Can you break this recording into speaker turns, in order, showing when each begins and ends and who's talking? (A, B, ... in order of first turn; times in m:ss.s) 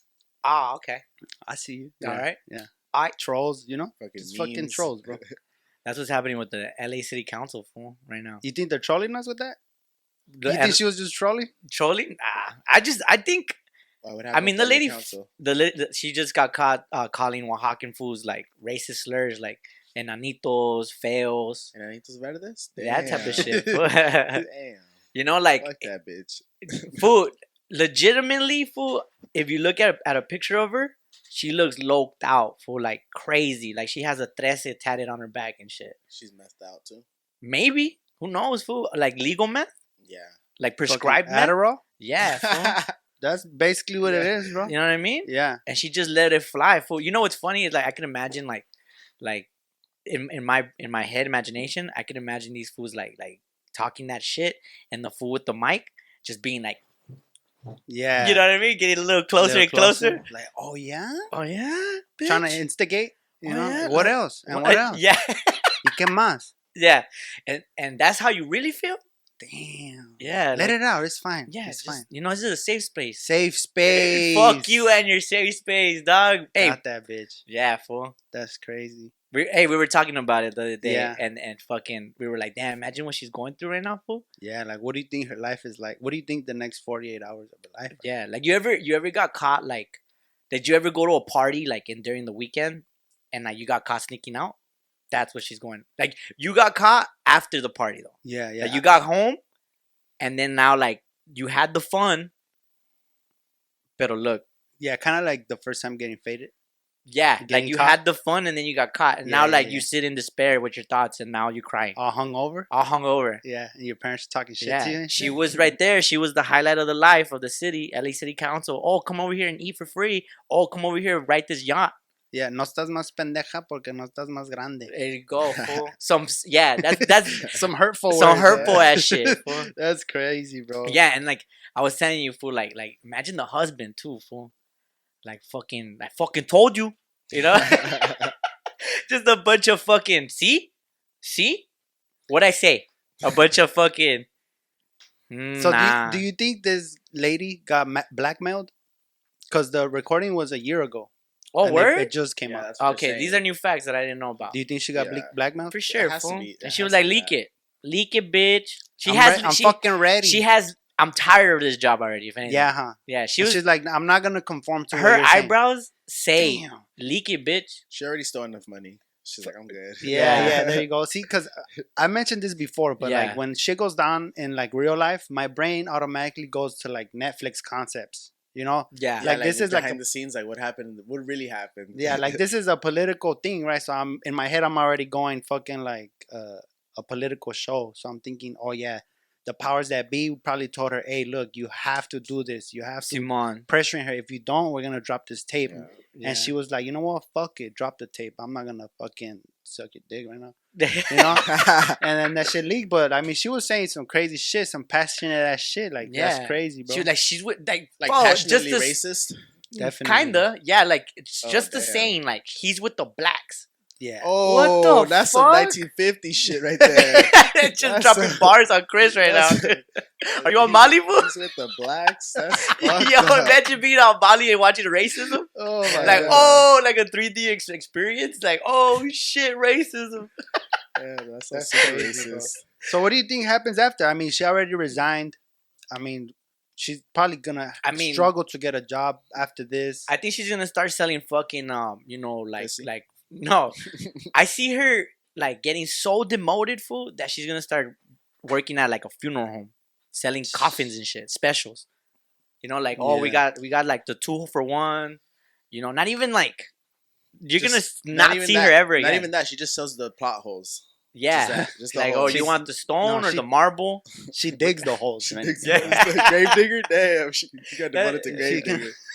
0:00.4-0:01.0 A
0:01.5-0:05.2 B
0:02.0-0:02.4 A
0:04.0-0:05.3 C
0:05.8-0:08.4 A
0:08.4-0:09.6 B
0:10.4-0:10.8 A
0:10.4-0:11.5 B
0:11.7-0:13.6 A
0:14.0-0:15.3 C
0:14.3-0:21.7 A
0:21.7-0:23.8 C
0:22.8-0:24.4 A
0:24.3-0:24.9 C
0:25.1-0:25.9 A
0:25.6-0:27.0 C
0:26.8-0:36.0 A
0:36.1-0:37.0 C
0:37.4-0:39.7 A
0:40.0-0:40.4 C
0:40.6-0:42.8 A
0:40.9-0:41.8 B
0:42.3-0:42.9 C
0:43.2-0:44.7 B
0:44.0-0:44.3 C
0:44.7-0:48.7 A
0:45.3-0:45.6 B
0:49.2-0:49.5 A
0:50.1-0:56.8 A
0:57.9-0:58.5 B
0:58.2-1:00.2 A
0:59.4-1:01.3 B
1:01.3-1:02.6 A
1:02.2-1:05.0 B
1:03.4-1:05.7 A
1:05.8-1:06.5 B
1:06.8-1:09.0 A
1:09.4-1:12.1 B
1:10.2-1:10.8 A
1:11.5-1:13.2 A
1:13.2-1:14.8 B
1:13.9-1:16.8 A
1:16.6-1:17.4 B
1:17.5-1:18.2 A
1:18.3-1:19.1 B
1:19.3-1:24.2 A
1:20.8-1:21.2 B
1:24.4-1:28.0 B
1:27.9-1:34.6 A
1:35.1-1:39.4 A
1:38.2-1:38.8 B
1:40.2-1:42.3 A
1:44.0-1:44.4 A
1:44.8-1:46.5 B
1:47.1-1:52.0 A
1:47.4-1:48.0 B
1:49.2-1:49.9 B
1:52.0-1:52.7 B
1:52.7-1:53.4 A
1:53.4-1:55.4 B
1:54.6-2:01.9 A
2:02.3-2:04.9 B
2:04.9-2:07.5 A
2:05.5-2:05.9 C
2:07.0-2:11.0 B
2:08.1-2:09.7 A
2:08.3-2:08.8 C
2:10.8-2:14.5 A
2:15.2-2:18.4 A
2:17.6-2:18.1 C
2:19.1-2:20.7 A
2:21.2-2:21.7 A
2:22.3-2:24.3 A
2:25.3-2:26.2 A
2:25.6-2:28.7 B
2:29.5-2:31.1 B
2:31.5-2:32.1 A
2:31.6-2:32.7 B
2:32.4-2:33.4 C
2:32.8-2:34.6 A
2:34.5-2:35.8 B
2:34.9-2:35.3 C
2:35.7-2:43.6 A
2:35.9-2:37.4 C
2:39.0-2:40.4 B
2:42.4-2:45.6 B
2:44.9-2:47.8 A
2:46.4-2:46.8 B
2:47.9-2:50.8 C
2:50.0-3:00.0 B
2:50.1-2:50.6 A
2:53.0-2:53.4 A
2:58.9-2:59.5 A
2:59.2-3:02.4 C
3:02.0-3:20.6 B
3:13.1-3:13.7 A
3:15.7-3:16.0 C
3:16.2-3:16.5 A
3:20.8-3:21.4 A
3:21.1-3:21.5 B
3:21.4-3:22.0 C
3:22.0-3:27.1 B
3:26.0-3:29.0 A
3:28.0-3:29.4 C
3:29.7-3:33.7 A
3:29.8-3:30.4 B
3:31.4-3:32.2 C
3:34.0-3:34.3 B
3:34.2-3:38.6 C
3:34.4-3:35.8 A
3:37.0-3:41.3 A
3:39.1-3:39.8 C
3:40.3-3:43.6 C
3:42.6-3:50.3 A
3:45.5-3:46.7 B
3:45.9-3:46.5 C
3:51.0-3:52.7 C
3:51.5-3:55.4 B
3:55.9-4:00.1 B
3:57.8-3:58.3 A
4:00.1-4:03.8 A
4:02.6-4:02.9 C
4:04.3-4:11.9 A
4:12.6-4:15.2 A
4:13.0-4:13.4 B
4:15.7-4:16.7 A
4:17.4-4:19.3 A
4:17.6-4:22.6 C
4:21.1-4:24.0 A
4:22.3-4:23.5 B
4:24.3-4:26.1 B
4:25.2-4:29.0 C
4:25.6-4:26.4 A
4:27.9-4:28.8 A
4:28.3-4:28.9 B